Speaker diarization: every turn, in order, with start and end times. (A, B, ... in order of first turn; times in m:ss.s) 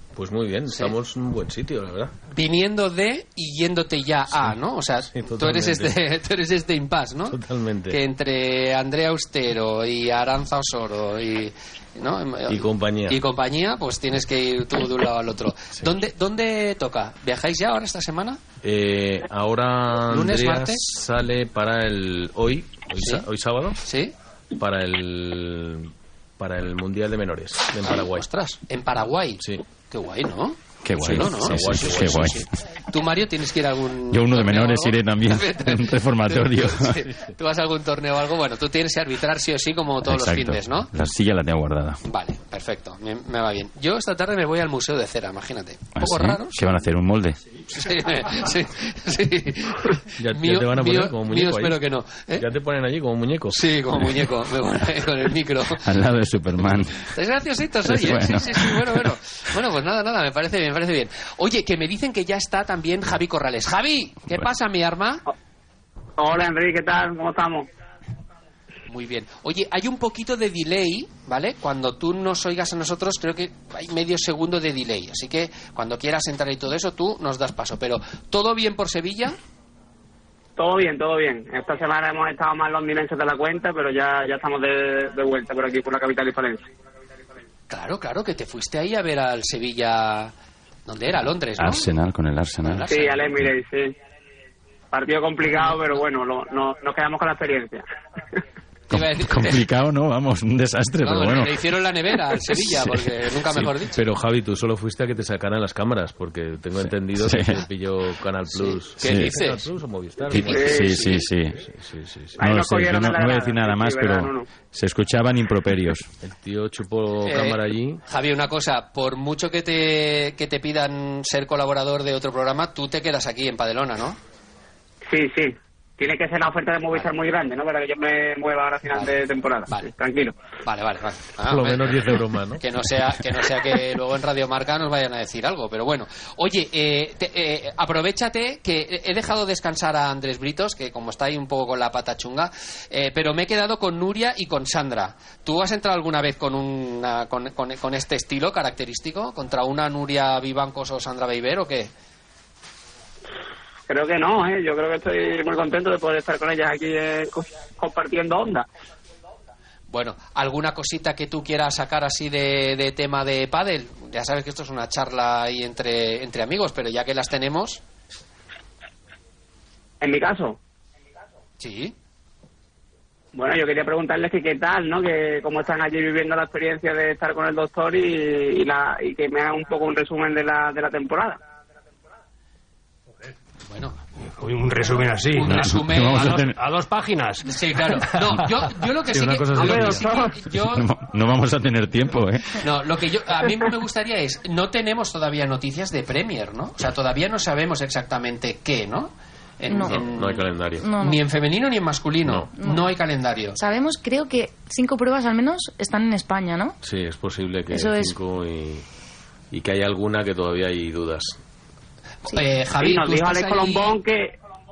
0:00.2-0:02.1 A
0:00.7-0:01.0 B
0:02.3-0:18.4 B
0:05.1-0:05.9 A
0:07.3-0:08.0 A
0:12.5-0:13.2 A
0:18.6-0:23.8 A
0:20.1-0:21.0 B
0:23.0-0:23.3 B
0:23.8-0:24.1 B
0:24.6-0:28.3 A
0:27.8-0:40.9 B
0:30.8-0:32.4 C
0:31.0-0:32.3 A
0:34.1-0:37.0 C
0:40.0-0:42.0 C
0:42.0-0:46.6 B
0:46.0-0:47.4 C
0:47.7-0:52.5 B
0:50.2-0:51.8 A
0:52.4-0:53.6 A
0:53.5-0:55.9 B
0:55.8-0:57.0 C
0:57.0-1:05.2 B
0:57.9-0:58.8 C
1:06.2-1:07.7 D
1:08.9-1:19.4 B
1:20.6-1:26.6 D
1:27.7-1:30.3 B
1:30.9-1:31.9 B
1:31.6-1:32.8 C
1:32.6-1:33.4 B
1:32.9-1:33.9 D
1:34.9-1:37.8 D
1:35.5-1:36.0 B
1:38.9-1:39.7 B
1:38.9-1:41.6 C
1:41.0-1:44.0 B
1:43.6-1:52.4 A
1:46.8-1:47.6 C
1:48.4-1:49.7 B
1:49.0-1:49.4 C
1:50.3-1:51.6 C
1:50.3-1:51.0 B
1:50.5-1:50.8 D
1:52.4-1:54.5 D
1:52.4-1:56.1 C
1:56.2-1:58.0 A
1:57.2-2:04.2 B
2:05.1-2:10.3 D
2:08.9-2:09.9 B
2:10.6-2:31.9 B
2:11.4-2:12.6 A
2:33.9-2:38.7 D
2:39.9-2:47.8 B
2:50.0-2:50.6 D
2:51.6-2:52.0 B
2:53.3-3:01.4 D
3:03.7-3:04.0 B
3:04.4-3:08.4 E
3:05.3-3:06.4 B
3:05.4-3:06.6 C
3:07.4-3:10.9 B
3:09.1-3:10.1 E
3:09.6-3:10.4 D
3:10.5-3:12.6 C
3:12.5-3:23.6 B
3:19.7-3:20.0 F
3:19.7-3:20.9 A
3:20.8-3:21.2 F
3:22.2-3:22.5 A
3:22.6-3:22.9 F
3:23.6-3:26.8 F
3:26.8-3:28.8 A
3:27.7-3:28.2 F
3:29.5-3:31.4 A
3:32.2-3:34.0 B
3:32.8-3:34.4 D